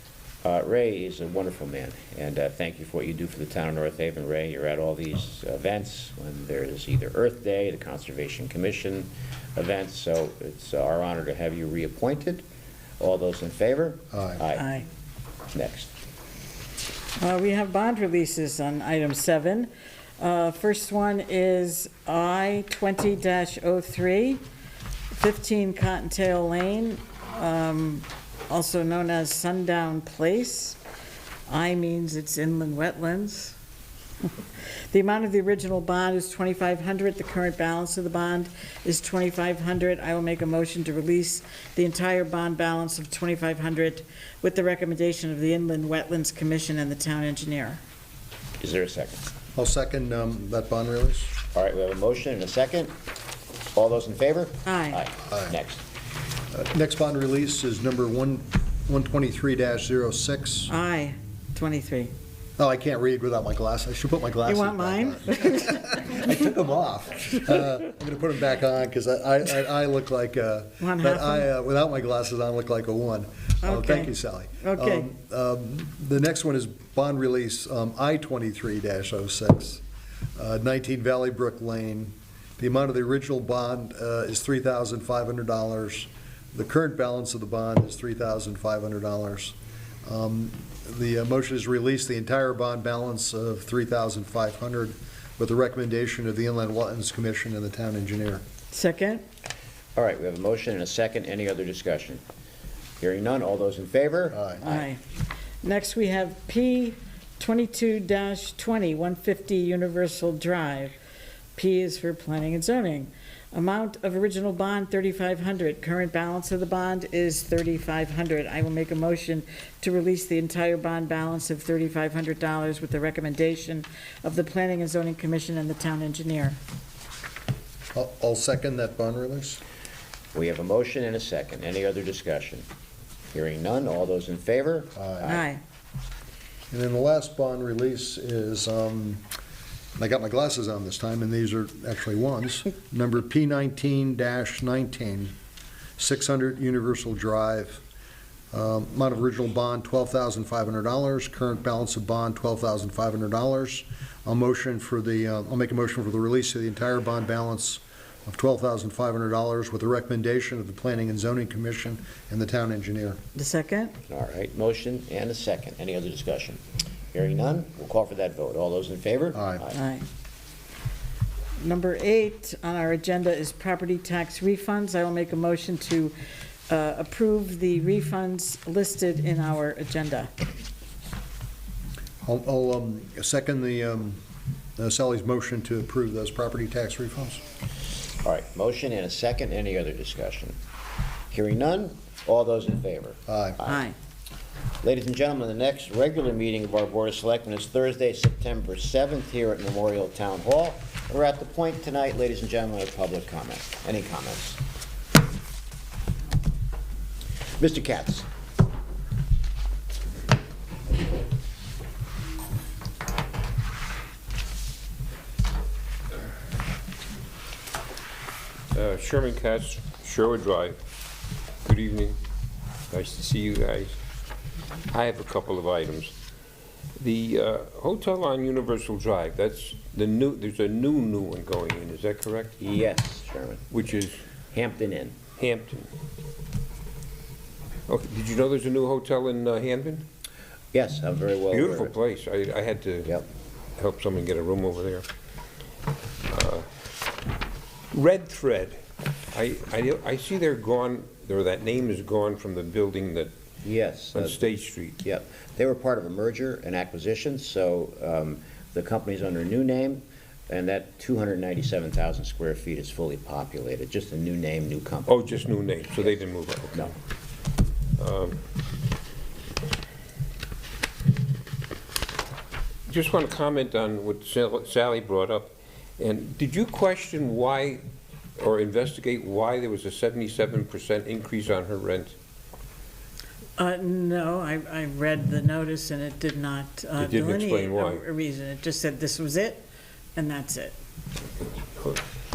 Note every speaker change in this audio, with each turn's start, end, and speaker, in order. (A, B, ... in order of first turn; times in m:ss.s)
0:00.4-0:12.4 A
0:13.0-0:14.6 A
0:14.1-0:14.4 B
0:14.6-0:14.8 C
0:15.5-0:15.9 A
0:17.2-0:24.4 C
0:25.1-0:30.8 C
0:31.5-0:33.6 C
0:34.9-0:47.8 C
0:48.6-0:49.2 A
0:49.6-0:51.3 B
0:51.5-0:52.9 A
0:53.7-0:55.8 A
0:54.6-0:55.0 C
0:55.3-0:55.5 B
0:56.5-1:00.7 B
1:00.7-1:02.1 C
1:02.6-1:19.8 B
1:04.4-1:06.5 C
1:10.8-1:11.5 C
1:13.6-1:15.1 C
1:20.4-1:38.4 B
1:38.7-1:39.2 C
1:40.0-1:42.2 A
1:43.0-1:44.9 A
1:44.3-1:44.6 B
1:44.6-1:45.0 C
1:45.6-1:51.0 C
1:51.5-2:06.6 C
2:07.9-2:09.6 B
2:10.3-2:12.6 A
2:13.3-2:15.4 A
2:15.0-2:15.3 B
2:15.2-2:15.6 C
2:16.7-2:19.2 B
2:20.0-2:25.3 B
2:26.0-2:27.8 B
2:28.5-2:43.2 B
2:43.3-2:44.0 C
2:44.1-2:46.6 A
2:47.1-2:49.8 A
2:49.3-2:49.6 B
2:49.7-2:50.0 C
2:51.6-2:56.1 C
2:56.7-3:00.3 C
3:02.2-3:04.2 B
3:04.8-3:07.4 B
3:08.2-3:10.6 A
3:11.3-3:13.8 A
3:13.3-3:13.6 B
3:13.6-3:13.9 C
3:14.8-3:24.6 A
3:27.6-3:28.3 A
3:38.7-3:40.8 D
3:41.6-3:42.2 D
3:42.9-3:44.0 D
3:44.9-3:46.1 D
3:47.0-3:52.6 D
3:52.6-3:53.6 A
3:53.7-3:54.2 D
3:54.5-3:55.2 A
3:55.4-3:55.9 D
3:57.9-4:00.0 D
4:00.7-4:01.9 A
4:01.5-4:03.1 D
4:03.8-4:05.0 D
4:06.3-4:06.6 D
4:07.9-4:08.8 D
4:09.3-4:13.3 D
4:13.6-4:14.5 A
4:14.1-4:15.0 D
4:15.0-4:25.3 A
4:25.1-4:26.9 D
4:28.0-4:28.4 D
4:32.9-4:37.8 D
4:38.4-4:42.1 D
4:43.6-4:49.6 C
4:47.0-4:48.0 D
4:50.2-4:50.7 C
4:51.8-4:52.0 D